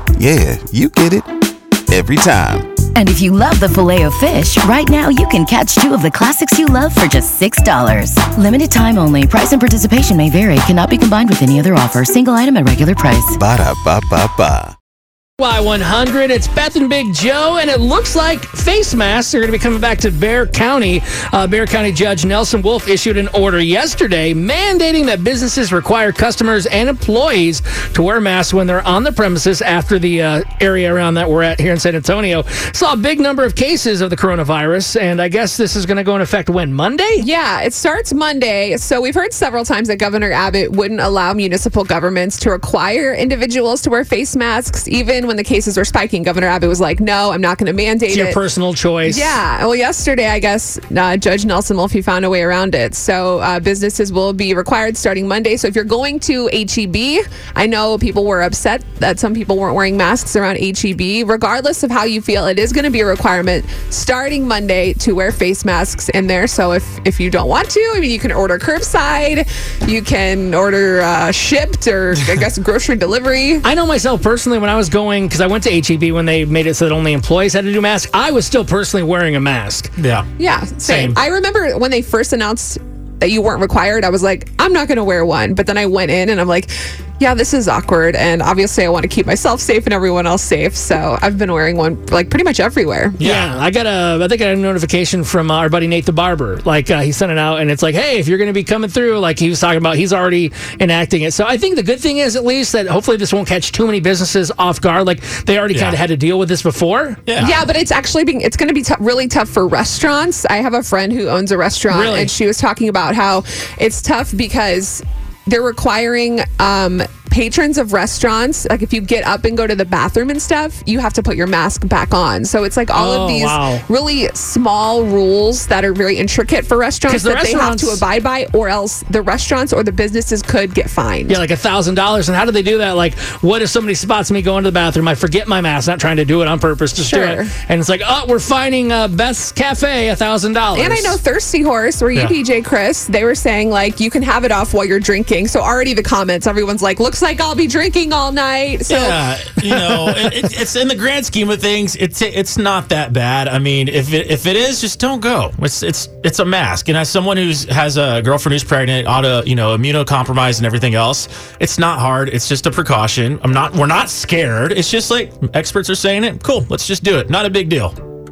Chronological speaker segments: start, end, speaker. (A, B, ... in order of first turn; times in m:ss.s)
0:00.2-0:01.3 A
0:01.9-0:02.8 A
0:03.0-0:13.4 B
0:13.4-0:14.8 A
0:15.4-0:37.2 C
0:37.2-0:48.4 D
0:48.1-0:49.4 C
0:49.1-1:13.6 D
1:13.6-1:19.9 C
1:20.0-1:20.3 E
1:20.4-1:33.2 D
1:20.8-1:21.2 C
1:33.2-1:33.6 E
1:33.2-1:47.2 C
1:45.7-1:46.0 E
1:47.3-1:47.7 E
1:47.4-2:11.4 D
1:51.9-1:52.3 C
2:02.9-2:03.8 C
2:07.1-2:08.0 C
2:11.3-2:21.2 C
2:17.0-2:17.5 D
2:20.8-2:29.2 D
2:28.9-2:48.0 E
2:29.8-2:30.3 C